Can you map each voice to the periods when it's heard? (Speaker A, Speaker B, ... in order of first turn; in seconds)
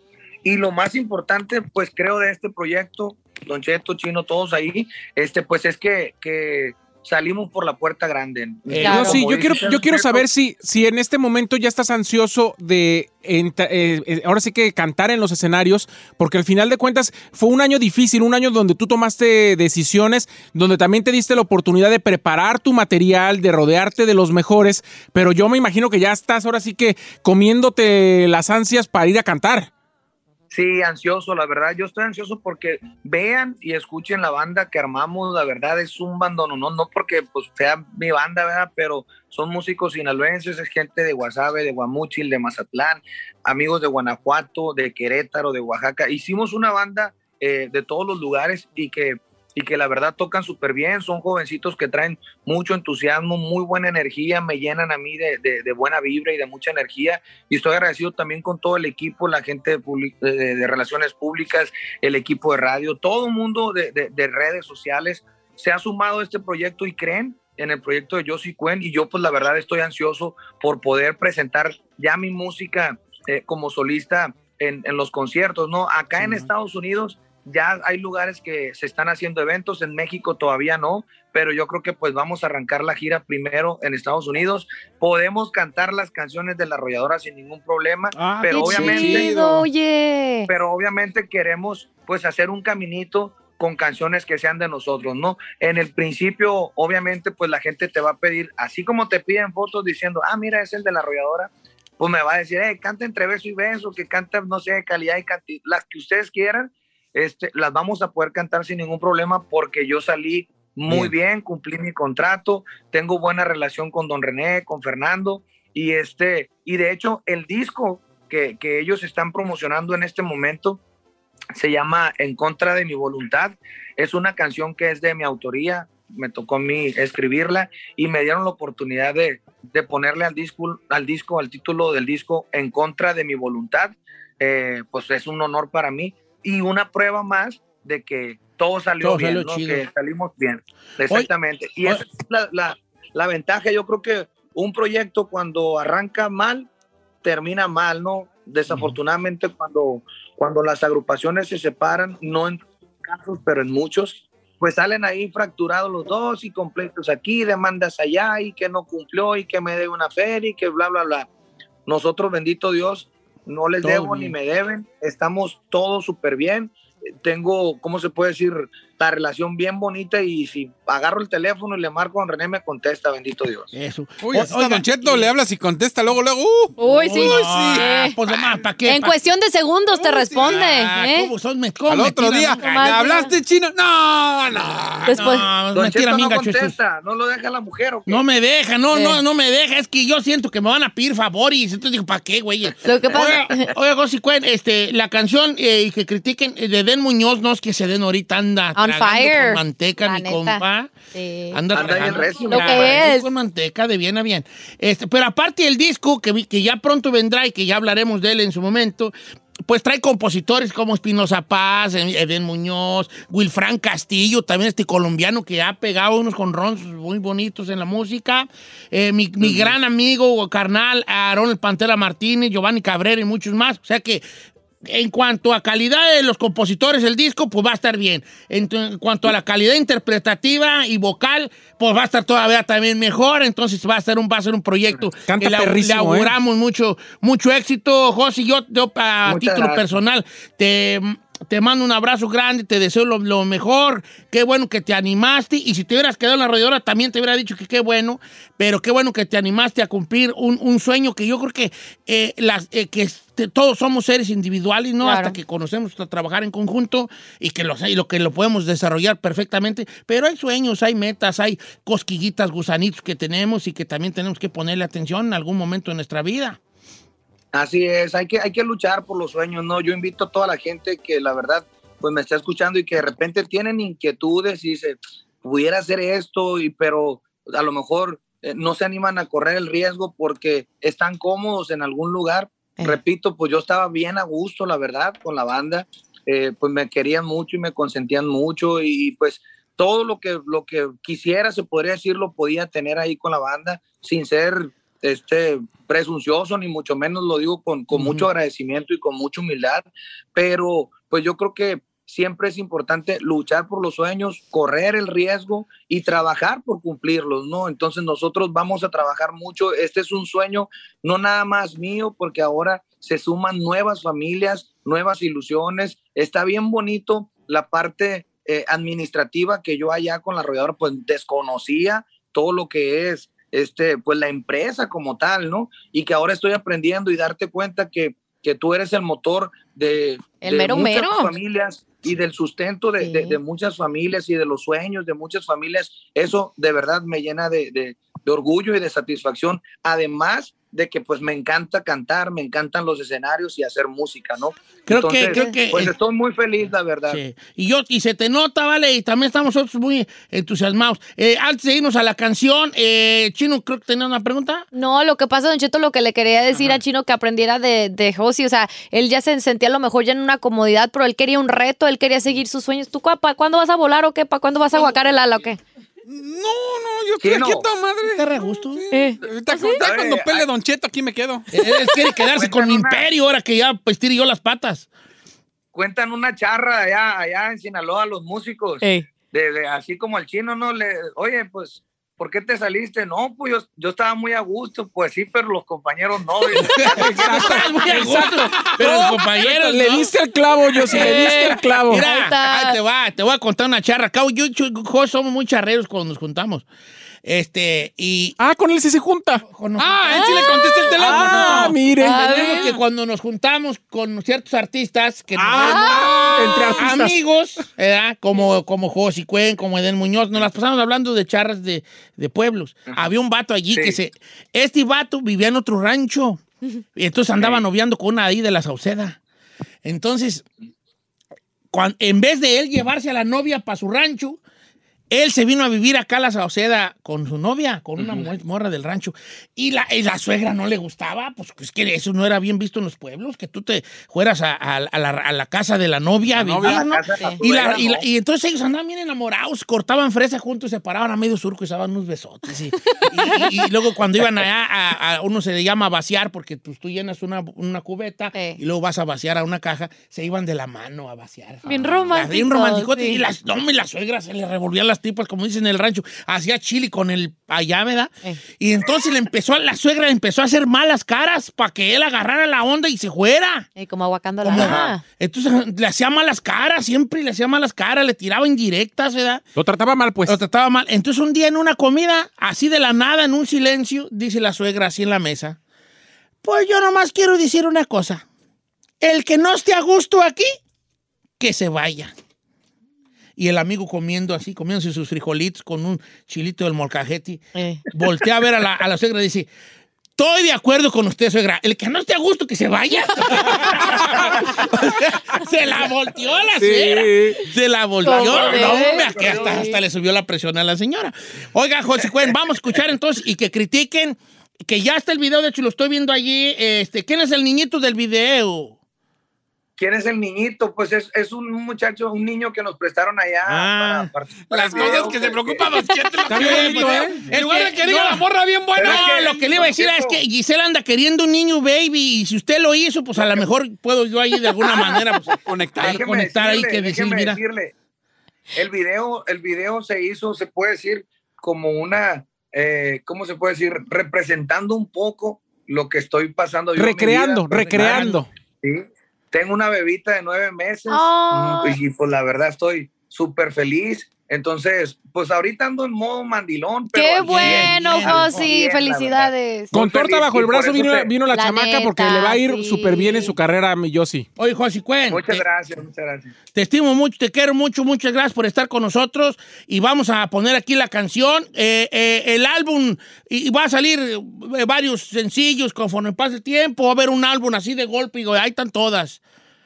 Speaker A: 0.4-10.2, 30.5-89.3, 90.5-120.8, 121.5-146.7, 147.2-161.3, 161.8-173.7, 185.7-188.2, 201.7-203.1, 239.2-239.9, 267.5-347.2, 367.2-367.7, 369.8-370.5, 372.3-373.1, 375.7-386.8, 413.7-414.0, 436.6-438.0, 464.6-464.9, 498.1-499.6, 509.8-515.6, 518.8-520.2, 525.8-527.7, 528.5-551.1, 555.1-556.3
Speaker B: 8.7-9.2, 76.2-76.5, 88.1-89.2, 139.0-139.8, 163.8-164.3, 173.7-175.3, 176.8-179.1, 180.3-183.3, 185.1-186.7, 188.1-200.9, 201.5-209.1, 209.6-224.2, 224.8-266.6, 297.9-298.2, 344.9-345.9, 347.1-354.6, 356.5-356.8, 368.1-368.8, 371.5-374.9, 386.6-390.1, 390.8-396.6, 397.2-398.4, 399.4-416.4, 416.9-419.2, 419.8-420.4, 421.7-424.4, 425.1-463.7, 464.4-469.4, 470.2-475.6, 476.4-478.2, 479.0-480.6, 481.4-482.1, 483.4-489.5, 490.2-508.7, 513.5-514.1, 516.3-527.4, 537.5-538.2, 547.2-548.5, 554.4-555.4, 556.5-569.2
Speaker C: 8.8-9.2, 88.5-90.5, 176.8-178.2, 178.8-181.3, 182.6-183.3, 185.1-185.5, 188.9-189.2, 192.8-193.7, 198.8-201.9, 202.5-203.3, 255.0-255.3, 330.4-331.3, 333.0-333.4, 345.3-345.6, 354.7-365.6, 368.9-369.8, 378.8-379.1, 390.8-392.8, 400.1-402.7, 405.6-406.6, 437.1-437.4, 443.0-443.5, 448.3-448.6, 451.6-453.2, 463.8-465.0, 487.6-487.8, 498.0-499.8, 514.8-515.0, 540.9-541.8, 546.9-549.7, 551.3-553.4
Speaker D: 8.8-29.7, 235.3-236.3, 387.0-392.0, 398.4-399.4, 401.3-402.3, 406.3-407.1, 469.6-470.4, 516.3-517.2, 536.8-538.3, 549.7-554.3
Speaker E: 88.6-89.7, 174.2-178.0, 180.0-180.8, 181.9-185.3, 366.1-371.5, 387.0-388.8, 399.8-401.8, 405.4-406.8, 436.3-436.9, 493.6-494.1, 496.6-497.4, 514.4-519.8, 525.4-526.0